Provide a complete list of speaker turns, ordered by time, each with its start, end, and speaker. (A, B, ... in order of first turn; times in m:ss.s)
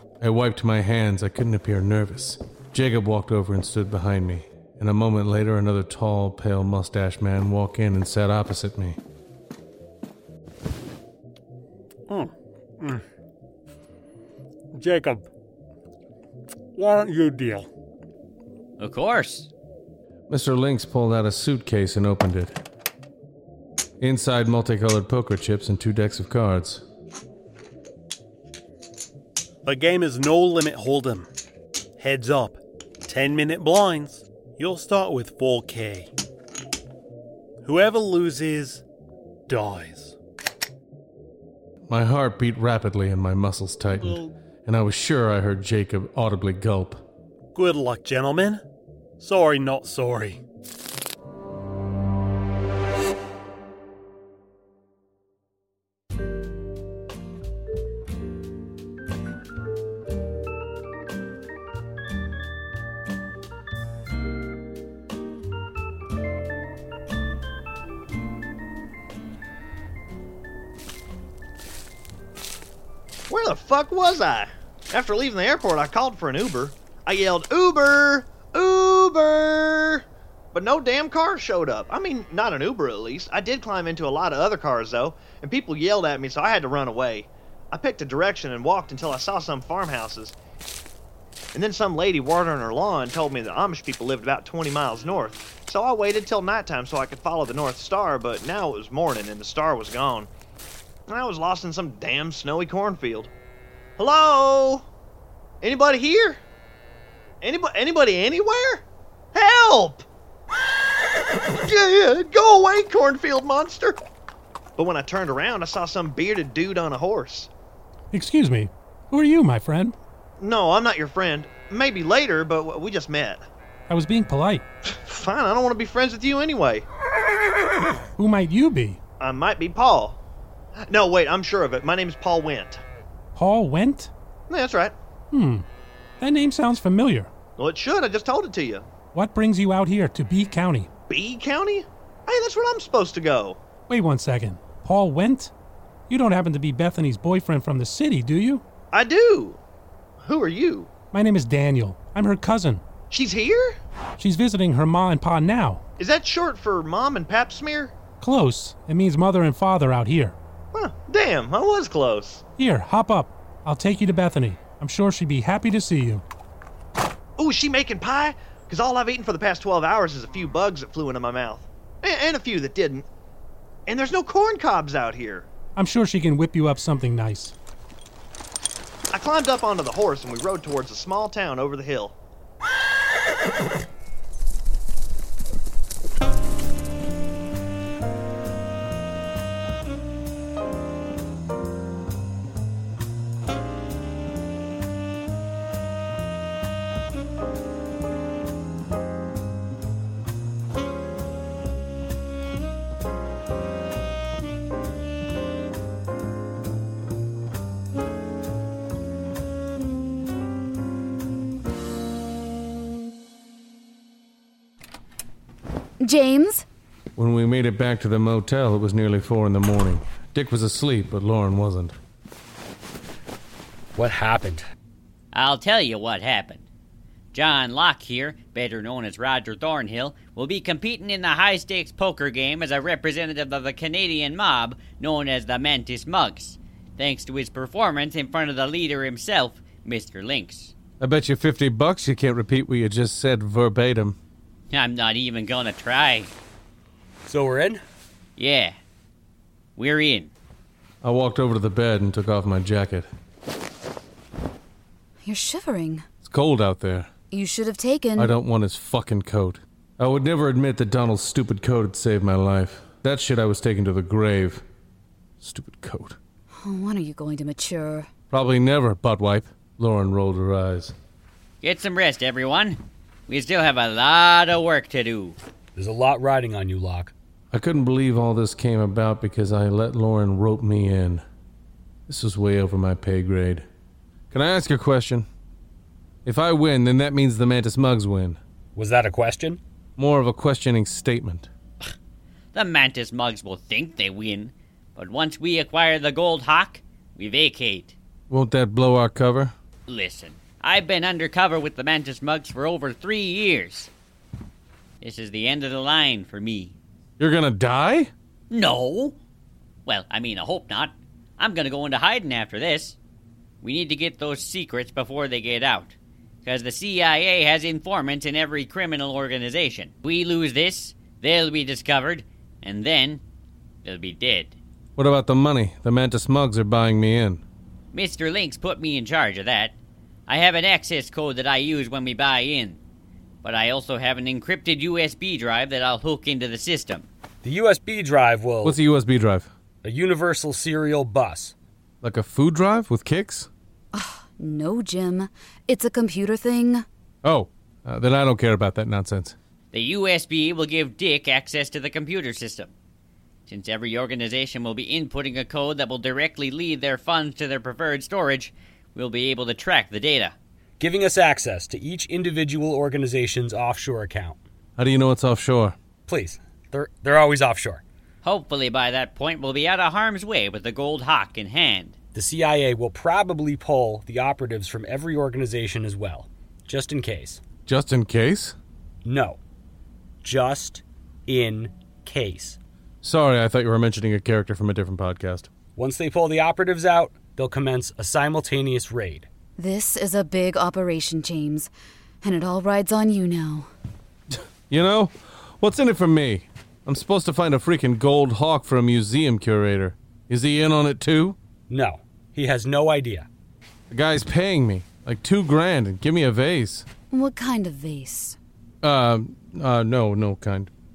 0:00.2-0:09.0 A
0:12.1-0:13.0 B
0:14.7-0:15.3 B
0:16.8-0:17.7 B
0:18.8-0:19.5 C
0:20.3-0:22.6 A
0:24.0-0:26.8 A
0:29.6-0:31.3 B
0:32.0-0:36.1 B
0:37.6-0:38.8 B
0:39.5-0:40.2 B
0:41.9-0:47.0 A
0:44.0-0:44.3 B
0:47.6-0:48.6 B
0:49.2-0:50.4 B
1:13.3-1:30.4 D
1:31.5-1:40.3 D
1:41.1-1:43.3 D
1:44.0-1:44.9 D
1:45.6-1:46.4 D
1:47.4-1:50.0 D
1:51.3-1:54.0 D
1:54.8-1:57.5 D
1:58.1-2:00.0 E
2:00.4-2:03.5 D
2:03.9-2:04.6 E
2:04.9-2:06.9 D
2:08.2-2:09.0 E
2:09.2-2:10.2 D
2:10.9-2:12.8 D
2:13.4-2:14.1 E
2:14.5-2:15.0 D
2:15.3-2:15.7 E
2:16.2-2:17.3 E
2:17.6-2:18.9 D
2:19.1-2:20.9 E
2:21.1-2:23.6 D
2:23.9-2:25.5 E
2:26.1-2:28.6 E
2:28.9-2:29.6 D
2:30.2-2:30.9 D
2:31.1-2:32.8 E
2:33.1-2:33.8 D
2:34.2-2:35.8 E
2:36.0-2:38.0 D
2:38.2-2:40.4 E
2:40.7-2:42.4 D
2:42.6-2:46.2 E
2:47.4-2:53.1 D
2:53.9-2:55.5 D
2:55.8-2:57.5 E
2:59.1-3:02.2 D
3:36.0-3:36.7 F
3:37.2-3:42.0 A
3:44.0-3:44.6 G
3:45.3-3:46.6 C
3:47.3-4:00.7 C
4:01.0-4:04.2 A
4:04.7-4:06.3 C
4:07.3-4:07.8 G
4:08.4-4:08.8 C
4:09.8-4:10.3 C
4:11.0-4:13.1 A
4:15.2-4:16.1 F
4:16.2-4:17.1 A
4:17.3-4:18.4 F
4:18.2-4:24.6 A
4:25.4-4:26.2 A
4:26.5-4:28.1 F
4:28.3-4:30.9 A
4:31.6-4:35.4 C
4:35.8-4:37.1 G
4:37.5-4:41.2 A
4:42.1-4:43.6 A
4:44.3-4:45.3 A
4:46.2-4:48.4 A
4:48.8-4:49.6 G
4:50.0-4:51.5 A
4:52.5-4:58.0 C
4:58.3-4:59.5 A
4:59.9-5:03.9 C
5:05.0-5:06.8 C
5:07.2-5:08.1 A
5:08.5-5:09.2 C
5:09.9-5:13.0 C
5:13.6-5:23.2 C
5:23.8-5:24.6 C
5:25.0-5:27.4 A
5:27.9-5:32.8 C
5:33.4-5:37.1 C
5:37.4-5:38.8 G
5:38.6-5:39.5 A
5:39.8-5:41.5 G
5:42.0-5:43.5 A
5:43.9-5:46.9 F
5:47.2-5:49.4 A
5:49.7-5:52.7 C
5:53.5-6:00.4 C
6:00.8-6:04.4 G
6:04.8-6:05.8 A
6:06.1-6:07.8 G
6:08.2-6:12.0 C
6:12.1-6:17.4 G
6:17.7-6:18.6 A
6:19.0-6:19.4 G
6:20.2-6:22.6 G
6:23.0-6:25.5 A
6:25.8-6:29.3 G
6:29.6-6:31.7 F
6:32.2-6:33.7 F
6:34.3-6:41.4 A
6:41.7-6:43.3 G
6:43.9-6:46.8 A
6:47.1-6:48.4 F
6:48.8-6:50.7 A